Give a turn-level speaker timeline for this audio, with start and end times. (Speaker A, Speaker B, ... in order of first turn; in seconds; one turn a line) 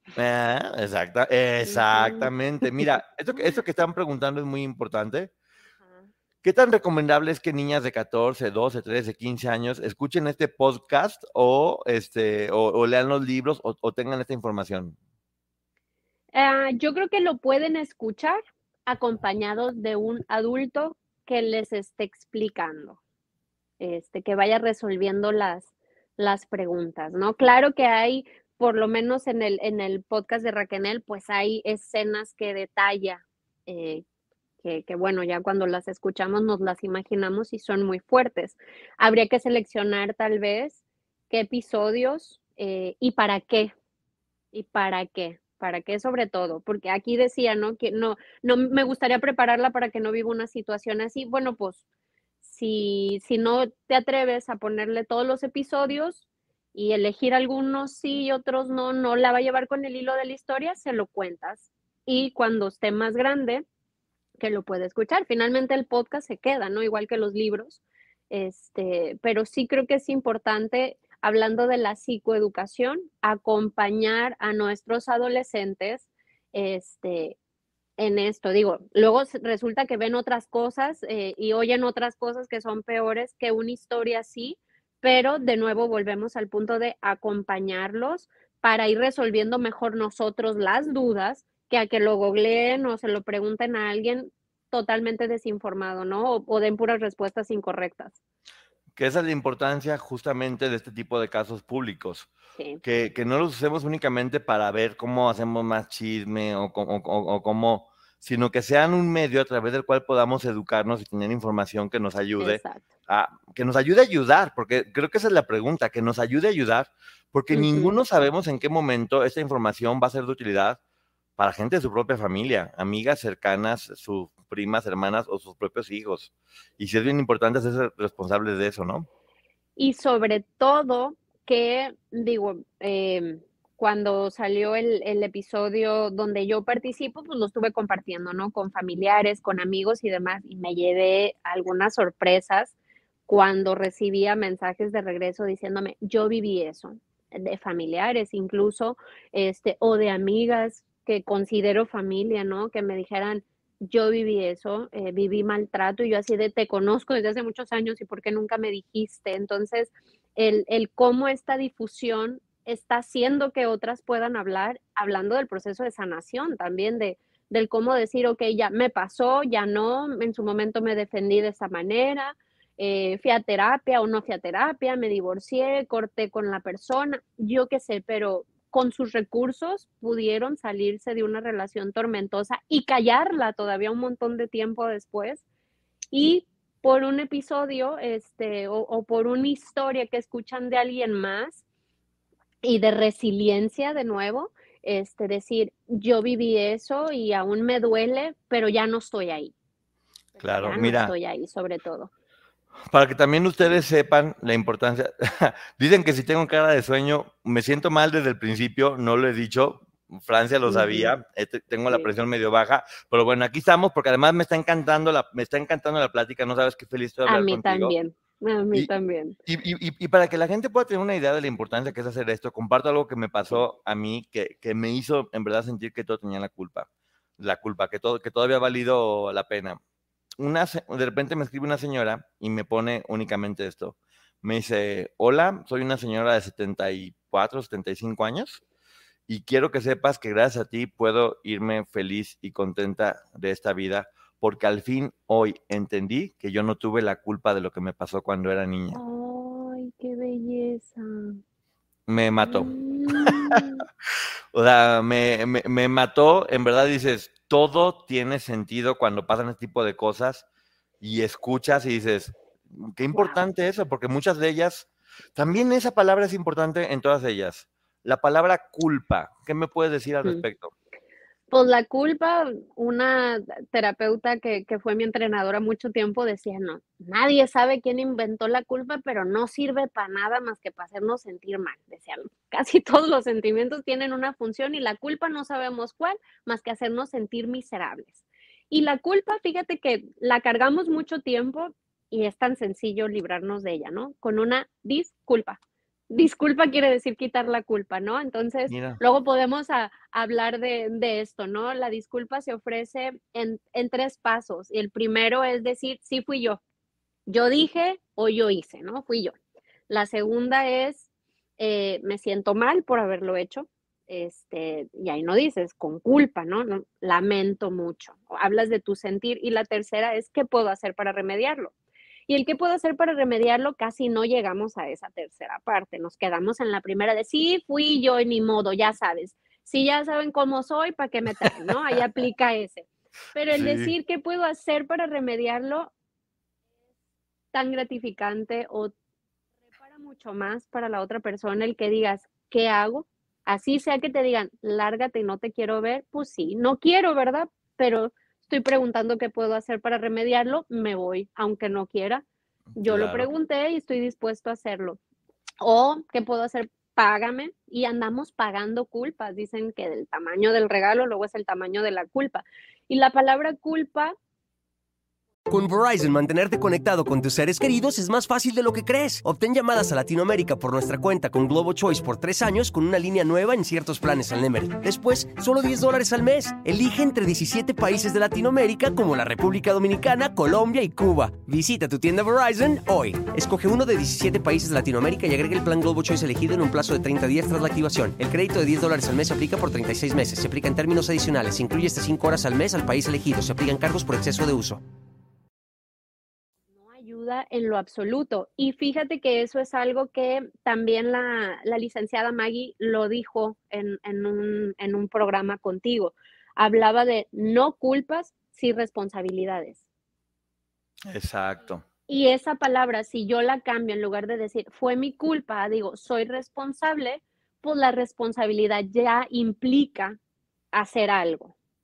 Speaker A: 0.1-5.3
Speaker B: 1.6-2.9
Speaker A: 6.4-14.9
Speaker B: 16.3-23.0
Speaker B: 23.8-34.0
Speaker B: 34.6-43.7
Speaker B: 44.5-51.8
Speaker B: 52.4-63.6
Speaker B: 64.4-77.4
Speaker B: 78.0-98.2
Speaker A: 99.0-102.3
Speaker A: 102.8-120.8
Speaker B: 112.4-112.8
Speaker B: 117.5-118.0
Speaker A: 121.4-129.1
Speaker B: 129.8-142.7
Speaker B: 143.3-185.4
Speaker B: 186.1-191.6
Speaker B: 192.6-199.5
Speaker B: 200.3-202.1
Speaker A: 200.4-201.1
Speaker A: 202.9-217.9
Speaker B: 210.7-211.1
Speaker B: 217.2-219.4
Speaker A: 219.5-226.9
Speaker A: 227.4-229.8
Speaker A: 230.4-238.6
Speaker A: 239.3-249.0
Speaker B: 248.9-251.4
Speaker A: 252.1-253.6
Speaker B: 252.4-253.8
Speaker A: 254.5-260.4
Speaker A: 261.0-270.7
Speaker B: 263.1-263.4
Speaker B: 271.5-295.6
Speaker B: 296.1-306.6
Speaker A: 298.7-299.0
Speaker B: 307.3-309.3
Speaker B: 309.9-311.1
Speaker B: 311.6-321.7
Speaker B: 322.3-335.9
Speaker A: 333.5-333.9
Speaker B: 337.5-338.9
Speaker B: 339.7-352.2
Speaker A: 352.8-353.3
Speaker B: 352.8-355.0
Speaker B: 355.6-364.1
Speaker C: 365.5-394.8
Speaker B: 396.8-409.8
Speaker A: 411.1-411.8
Speaker B: 412.1-420.2
Speaker B: 420.7-421.5